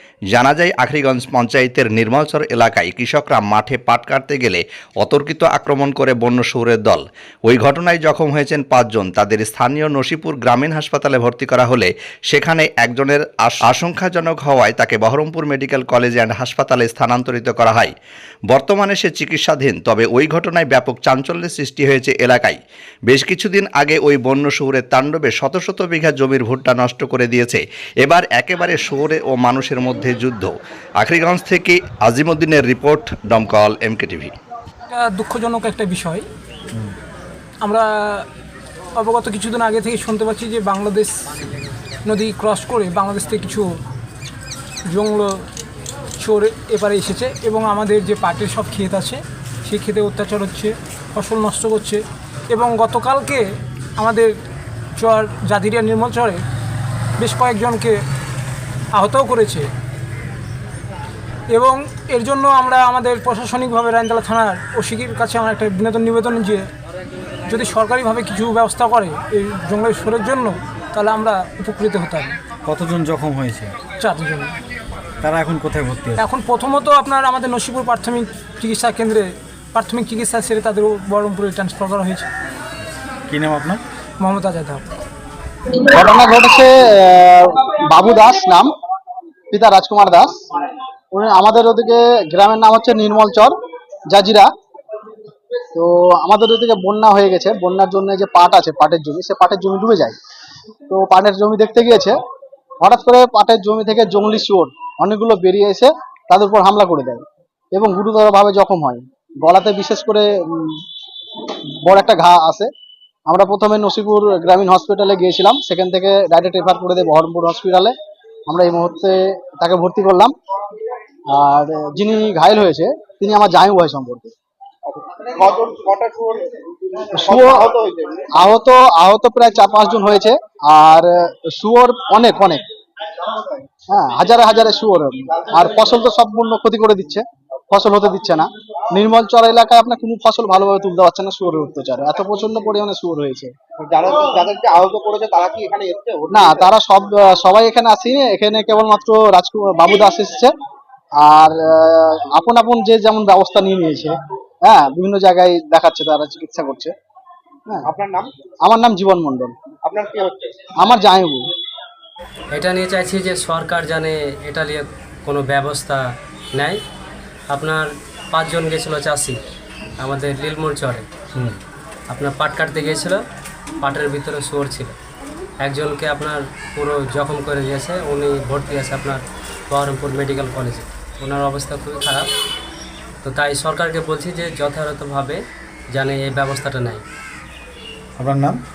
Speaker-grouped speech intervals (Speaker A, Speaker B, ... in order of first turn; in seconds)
Speaker A: 0.3-17.9, 18.5-34.3
Speaker B: 34.9-36.2, 37.6-38.2, 39.0-41.3, 42.0-43.7, 44.9-45.4, 46.2-53.5, 54.0-54.3, 55.0-56.4, 57.2-58.0, 58.9-59.7, 61.5-66.6, 67.5-72.4, 73.9-74.5, 76.2-82.3, 84.2-84.8
Speaker C: 72.7-73.9, 75.2-76.2, 83.3-83.8, 188.2-188.6
Speaker D: 85.8-88.7, 89.5-90.4, 91.1-93.5, 94.1-94.5, 95.7-100.2, 100.9-102.2, 102.8-110.8, 111.8-112.7, 113.3-117.9, 118.5-120.3, 121.3-124.3, 127.1-127.7, 128.3-132.6, 133.9-143.5, 146.3-150.5, 151.2-156.9, 158.6-159.5, 160.8-161.4
Speaker E: 124.9-128.3, 143.8-146.7, 157.8-158.3, 159.8-160.7
Speaker F: 162.5-166.0, 167.5-169.4, 170.0-171.6, 172.1-173.2, 173.8-174.9, 175.6-182.3, 183.2-185.4, 185.9-187.0